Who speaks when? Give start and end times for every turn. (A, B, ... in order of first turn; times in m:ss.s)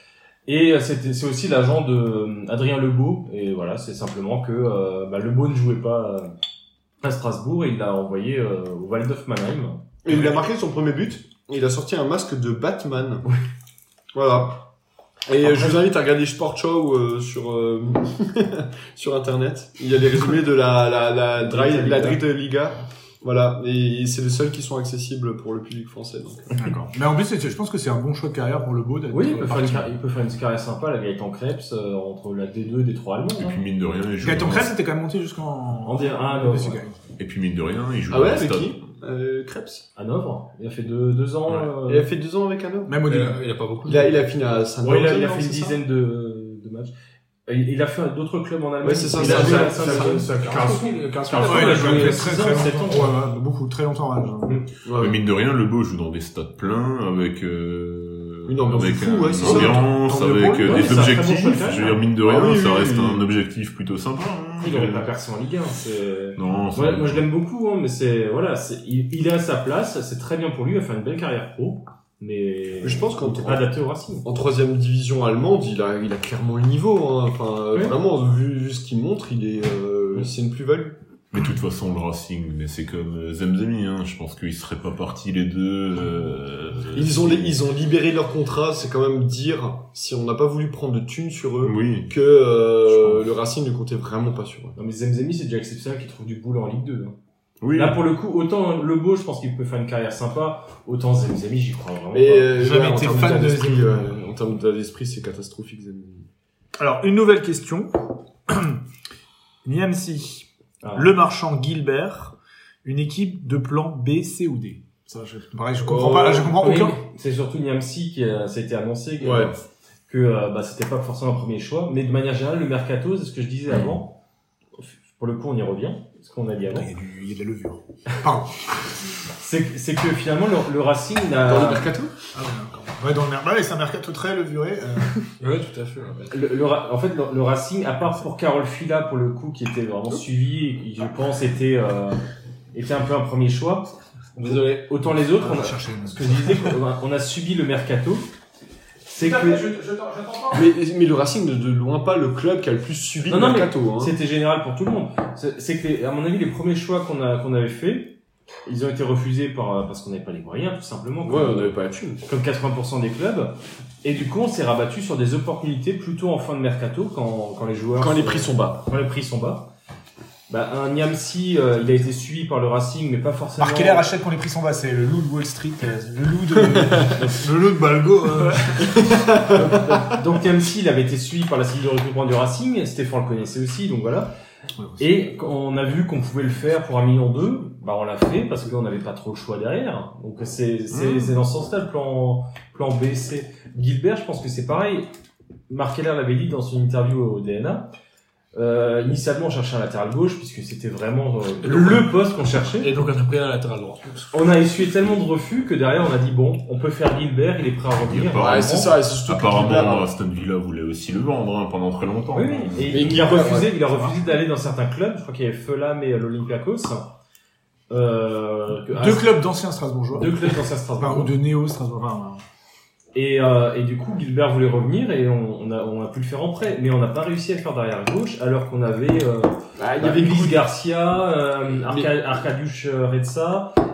0:00.5-0:06.3 A
0:07.0-0:09.8 A
0:10.0-0:13.3 B
0:14.1-0:14.6 B
0:15.3-0:26.5 B
0:15.4-0:15.8 A
0:21.4-0:22.2 A
0:26.5-0:29.9 C
0:29.1-0:33.6 A
0:33.3-0:34.7 D
0:34.2-0:37.0 C
0:35.8-0:36.8 A
0:37.2-0:38.9 D
0:38.1-0:39.8 B
0:40.0-0:42.1 A
0:41.8-0:43.0 B
0:42.8-0:43.4 C
0:43.0-0:44.2 E
0:43.8-0:45.8 B
0:44.8-0:46.9 A
0:47.5-0:53.1 A
0:48.8-0:50.3 B
0:49.2-0:52.6 E
0:51.3-0:54.6 C
0:54.8-0:55.2 B
0:55.0-1:05.1 D
0:58.5-1:01.0 B
1:00.6-1:02.0 A
1:02.2-1:03.3 B
1:04.6-1:14.2 A
1:06.4-1:07.3 D
1:12.8-1:13.7 B
1:14.2-1:21.0 B
1:17.7-1:18.0 A
1:21.3-1:27.6 D
1:26.9-1:34.8 B
1:31.6-1:32.1 D
1:32.9-1:33.2 D
1:34.8-1:37.1 A
1:37.6-1:38.0 D
1:37.7-1:42.5 A
1:42.1-1:46.2 B
1:42.6-1:44.0 C
1:46.8-1:48.0 C
1:48.5-1:48.8 C
1:49.6-1:57.0 C
1:50.8-1:51.1 A
1:55.9-1:56.5 B
1:56.5-2:04.2 A
1:59.2-1:59.5 B
2:04.8-2:06.9 A
2:06.7-2:08.9 C
2:09.4-2:11.9 A
2:11.4-2:12.1 B
2:12.3-2:15.1 C
2:15.4-2:16.3 E
2:16.3-2:22.2 A
2:22.7-2:28.3 A
2:25.3-2:26.8 C
2:29.1-2:29.7 A
2:29.2-2:30.7 C
2:30.5-2:34.1 B
2:33.3-2:49.7 A
2:41.2-2:42.2 B
2:48.0-2:48.8 B
2:50.5-2:54.0 A
2:53.6-2:57.4 C
2:56.7-2:57.0 B
2:57.3-2:58.7 E
2:58.3-2:59.3 C
2:59.0-3:00.0 B
2:59.4-3:04.3 A
3:04.8-3:05.0 C
3:05.0-3:15.1 A
3:10.9-3:11.4 D
3:15.7-3:17.9 A
3:18.5-3:22.9 A
3:21.6-3:24.3 E
3:24.3-3:28.9 A
3:28.1-3:33.4 D
3:28.4-3:30.1 B
3:32.3-3:37.1 A
3:32.9-3:33.7 B
3:33.9-3:34.2 C
3:37.9-3:39.4 A
3:38.9-3:42.4 C
3:40.1-3:41.3 A
3:43.1-3:53.7 A
3:49.8-3:50.7 B
3:51.8-3:52.1 B